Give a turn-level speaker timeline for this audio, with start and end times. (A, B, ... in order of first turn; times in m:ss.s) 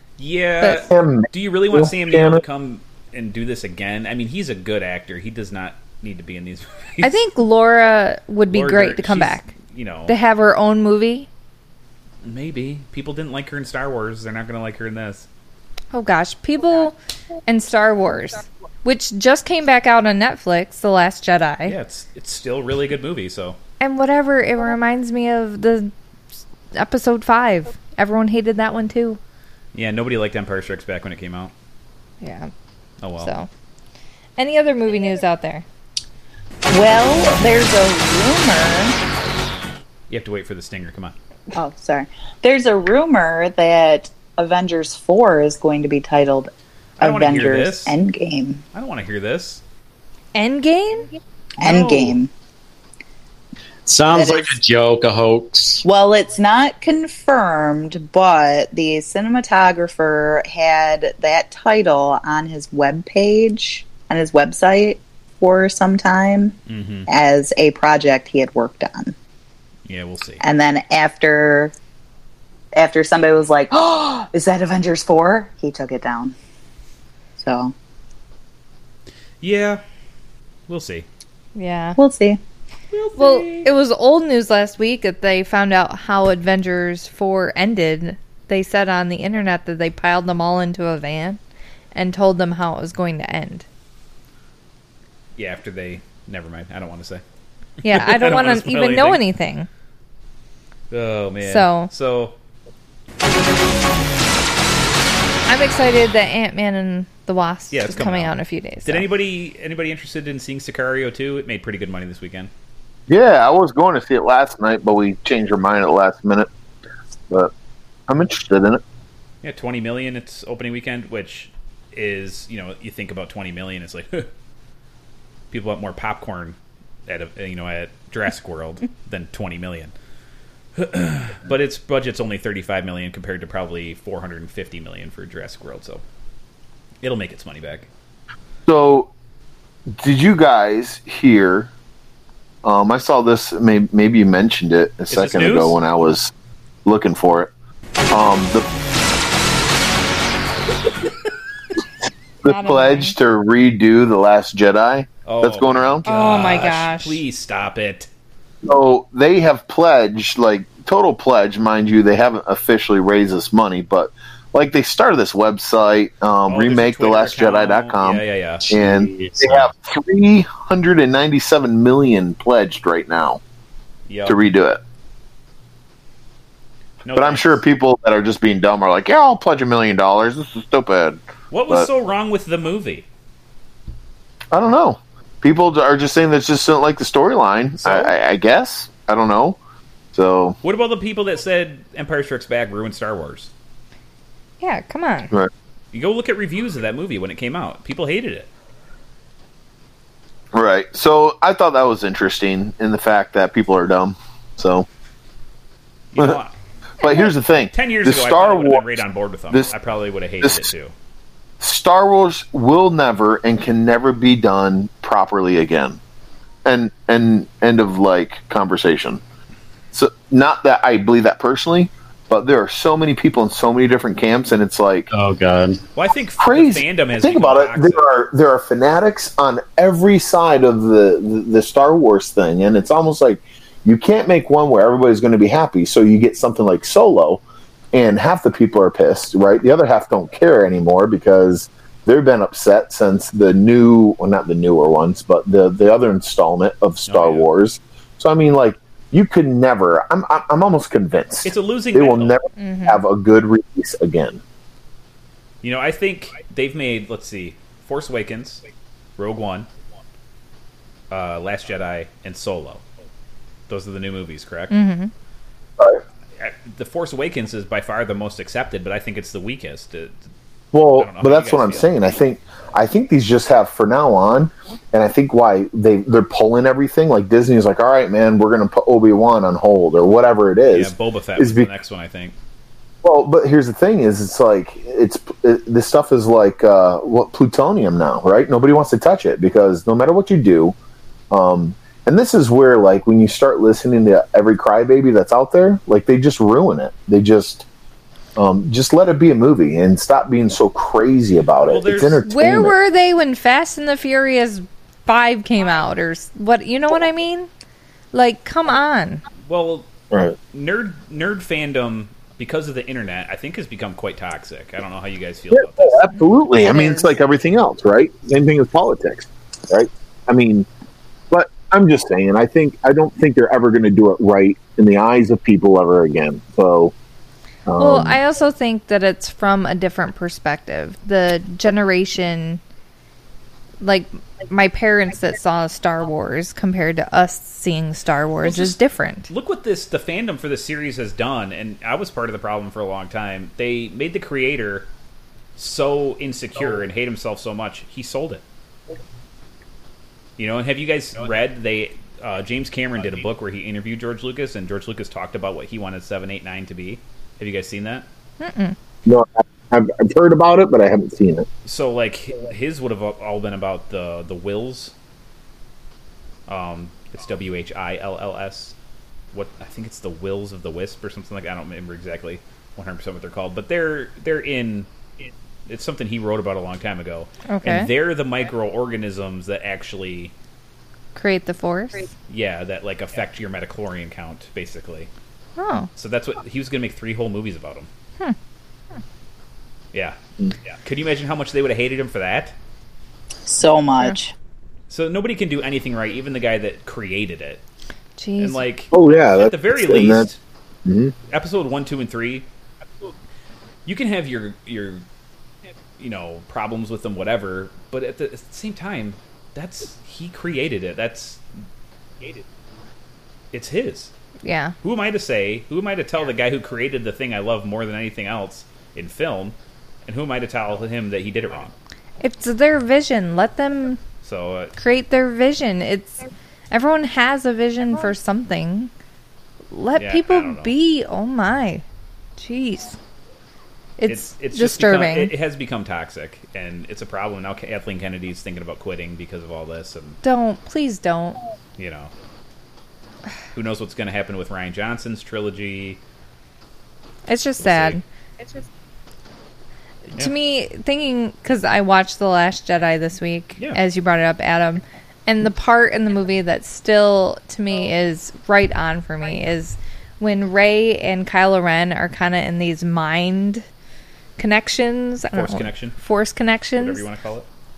0:00.2-0:07.1 A
0:00.8-0:02.4 B
0:07.0-0:09.5 C
0:08.5-0:10.1 A
0:10.1-0:11.3 C
0:12.2-0:15.2 A
0:15.9-0:16.9 C
0:17.4-0:21.8 C
0:21.7-0:23.6 A
0:23.8-0:25.9 C
0:26.7-0:29.2 C
0:29.7-0:31.5 A
0:32.2-0:32.5 C
0:33.0-0:33.3 A
0:33.2-0:33.5 C
0:34.4-0:35.6 C
0:36.7-0:39.0 D
0:40.1-0:41.1 A
0:41.5-0:48.6 D
0:47.0-0:48.0 A
0:48.7-0:49.6 A
0:50.3-0:51.1 C
0:51.6-0:52.3 D
0:51.6-0:52.1 A
0:53.8-0:55.8 E
0:54.1-0:54.6 D
0:55.8-1:06.6 D
1:06.7-1:07.1 A
1:07.1-1:09.1 D
1:09.9-1:10.4 A
1:10.4-1:11.7 D
1:12.7-1:16.3 D
1:17.4-1:17.7 D
1:19.4-1:19.8 A
1:20.7-1:21.0 A
1:21.5-1:22.0 C
1:22.0-1:22.4 D
1:22.9-1:23.7 A
1:23.2-1:31.4 C
1:31.9-1:33.6 C
1:35.4-1:37.2 A
1:37.8-1:39.7 C
1:37.8-1:39.2 A
1:40.9-1:42.3 A
1:41.4-1:41.9 C
1:45.5-1:49.0 C
1:47.7-1:48.3 A
1:48.8-1:52.5 A
1:53.1-1:56.5 B
1:58.1-1:58.8 B
1:59.4-2:04.3 A
2:05.5-2:06.6 A
2:07.1-2:09.9 A
2:10.7-2:16.0 A
2:17.0-2:17.9 A
2:18.7-2:19.1 B
2:20.0-2:21.7 B
2:22.6-2:26.3 B
2:25.1-2:25.8 A
2:26.8-2:27.5 B
2:28.1-2:28.6 B
2:32.4-2:36.0 B
2:32.4-2:33.1 C
2:35.2-2:38.1 A
2:36.0-2:37.2 C
2:38.6-2:53.4 B
2:46.5-2:48.6 A
2:48.6-2:49.7 E
2:54.1-2:54.4 A
2:54.2-2:54.8 B
2:57.0-2:57.6 A
2:57.1-3:01.9 B
3:01.5-3:03.1 A
3:04.5-3:09.6 B
3:07.8-3:08.1 A
3:10.1-3:10.6 B
3:10.6-3:13.5 A
3:14.6-3:15.3 C
3:15.9-3:18.5 A
3:20.5-3:24.8 B
3:26.1-3:26.5 A
3:27.0-3:29.0 B
3:27.7-3:30.9 A
3:30.4-3:30.7 B
3:31.6-3:36.0 B
3:36.6-3:39.2 B
3:39.9-3:45.1 B
3:45.1-3:45.8 E
3:45.9-3:48.0 A
3:46.4-3:57.4 B
3:57.9-4:14.4 B
4:07.1-4:07.5 A
4:11.4-4:12.4 A
4:12.6-4:13.0 C
4:15.6-4:18.6 A
4:19.2-4:19.7 A
4:21.1-4:22.8 A
4:23.7-4:24.7 A
4:24.7-4:25.1 C
4:26.4-4:30.1 A
4:30.7-4:41.7 B
4:30.9-4:32.0 A
4:40.7-4:42.3 A
4:43.0-4:50.7 B
4:51.3-4:57.6 B
4:58.4-5:02.7 B
5:01.7-5:02.2 A
5:02.2-5:07.5 C
5:08.1-5:09.2 C
5:09.5-5:09.9 A
5:10.5-5:16.1 A
5:15.5-5:20.7 B
5:16.7-5:17.0 C
5:21.3-5:26.9 B
5:27.6-5:28.2 B
5:27.8-5:32.6 C
5:33.8-5:39.3 C
5:38.4-5:38.8 A
5:39.3-5:44.9 A
5:45.6-5:48.4 A
5:50.4-5:58.0 A
5:58.4-5:58.8 C
5:59.0-6:01.5 B
6:01.6-6:04.9 A
6:06.5-6:08.7 A
6:09.3-6:14.9 A
6:15.7-6:20.3 A
6:17.5-6:17.9 C
6:21.1-6:22.0 C
6:22.3-6:25.1 A
6:25.6-6:25.9 C
6:26.0-6:27.9 A
6:30.8-6:32.5 A
6:33.5-6:34.3 D
6:34.9-6:37.6 A
6:38.2-6:38.6 C
6:38.4-6:40.4 A
6:38.9-6:40.3 B
6:40.8-6:41.1 B
6:41.3-6:42.4 A
6:43.8-6:45.0 A
6:46.0-6:51.4 A
6:53.5-6:54.1 A
6:54.4-6:54.7 C
6:54.8-6:59.5 A
7:00.0-7:01.7 A
7:02.2-7:04.0 C
7:04.2-7:04.7 A
7:04.8-7:08.9 C
7:09.7-7:11.8 C
7:09.9-7:10.7 A
7:12.4-7:13.0 C
7:14.0-7:15.3 C
7:14.0-7:20.2 A
7:20.2-7:21.4 C
7:21.8-7:22.1 A
7:23.5-7:26.0 A
7:27.3-7:28.0 C
7:27.6-7:28.0 A
7:30.2-7:43.6 C
7:44.4-7:47.0 C
7:45.3-7:46.0 A
7:46.8-7:47.5 A